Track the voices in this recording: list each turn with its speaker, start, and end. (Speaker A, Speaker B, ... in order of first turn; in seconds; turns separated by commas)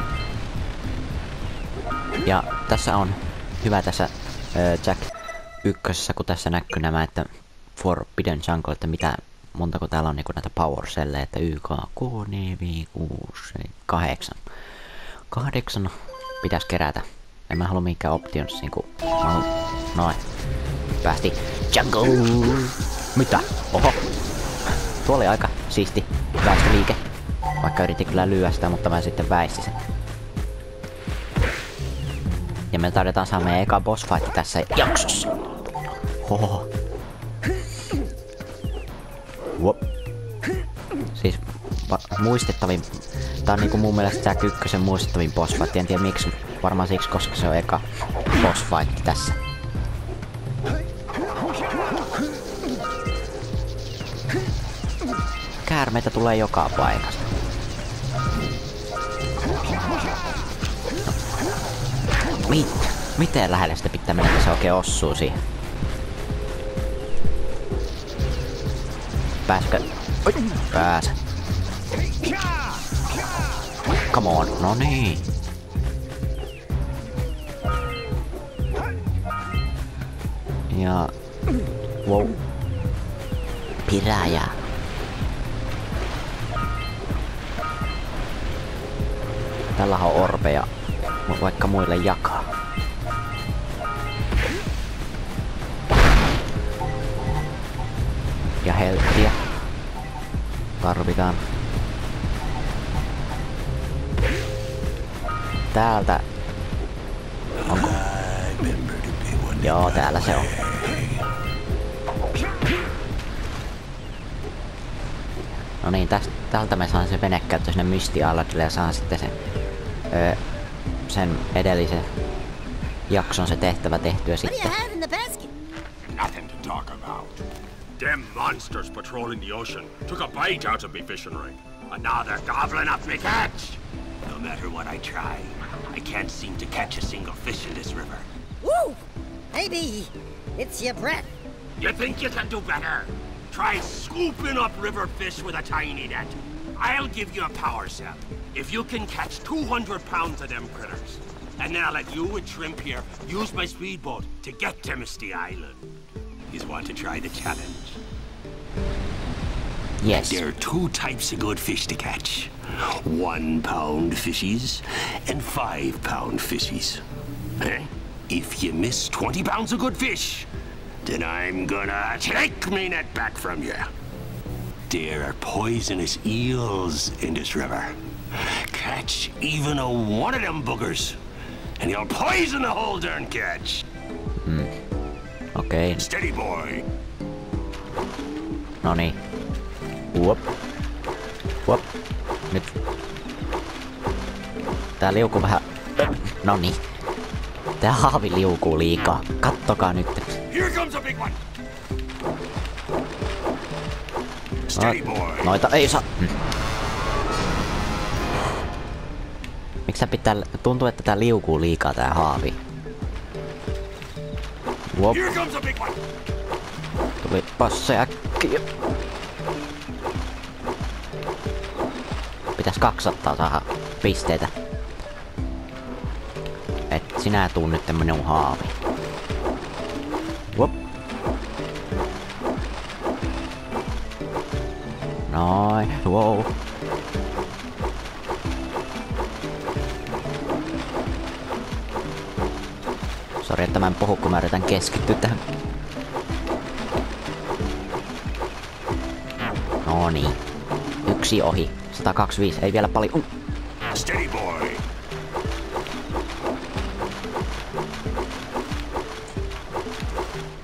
Speaker A: 2.2-5.1, Speaker A: 5.6-14.4, Speaker A: 15.3-20.2, Speaker A: 21.0-24.0, Speaker A: 25.0-27.0, Speaker A: 27.6-29.7, Speaker A: 32.7-35.3, Speaker A: 36.2-36.7, Speaker A: 41.1-49.4, Speaker A: 55.6-57.3, Speaker A: 62.5-65.4, Speaker A: 69.5-71.2, Speaker A: 74.1-75.2, Speaker A: 80.7-81.1, Speaker A: 82.0-82.3, Speaker A: 83.8-84.6, Speaker A: 89.8-90.7, Speaker A: 91.2-92.5, Speaker A: 98.6-99.4, Speaker A: 100.8-101.4, Speaker A: 105.7-106.2, Speaker A: 107.7-108.0, Speaker B: 107.7-111.2, Speaker A: 109.6-110.5, Speaker A: 115.8-119.3, Speaker A: 120.1-120.4, Speaker A: 121.1-122.1, Speaker A: 123.1-124.7, Speaker C: 124.4-125.5, Speaker B: 126.0-127.4, Speaker B: 128.0-138.2, Speaker C: 138.6-139.0, Speaker C: 139.5-141.3, Speaker B: 141.8-155.8, Speaker B: 156.5-158.0, Speaker A: 160.0-160.4, Speaker B: 160.1-167.0, Speaker B: 167.6-170.5, Speaker B: 171.0-173.9, Speaker B: 174.9-181.2, Speaker B: 181.8-183.8, Speaker A: 184.4-184.8, Speaker A: 185.5-186.0, Speaker B: 185.9-186.8, Speaker A: 188.8-189.2, Speaker A: 190.1-190.5, Speaker A: 195.0-196.8, Speaker A: 197.8-200.4, Speaker B: 200.5-201.4, Speaker B: 204.7-205.5, Speaker A: 204.7-206.3, Speaker A: 209.9-212.6, Speaker A: 214.9-215.2, Speaker B: 215.1-216.0, Speaker A: 217.2-218.6, Speaker A: 222.6-224.5, Speaker A: 226.9-228.8, Speaker A: 235.3-236.5, Speaker A: 243.4-245.4, Speaker A: 249.8-250.4, Speaker A: 251.1-253.3, Speaker B: 253.9-254.8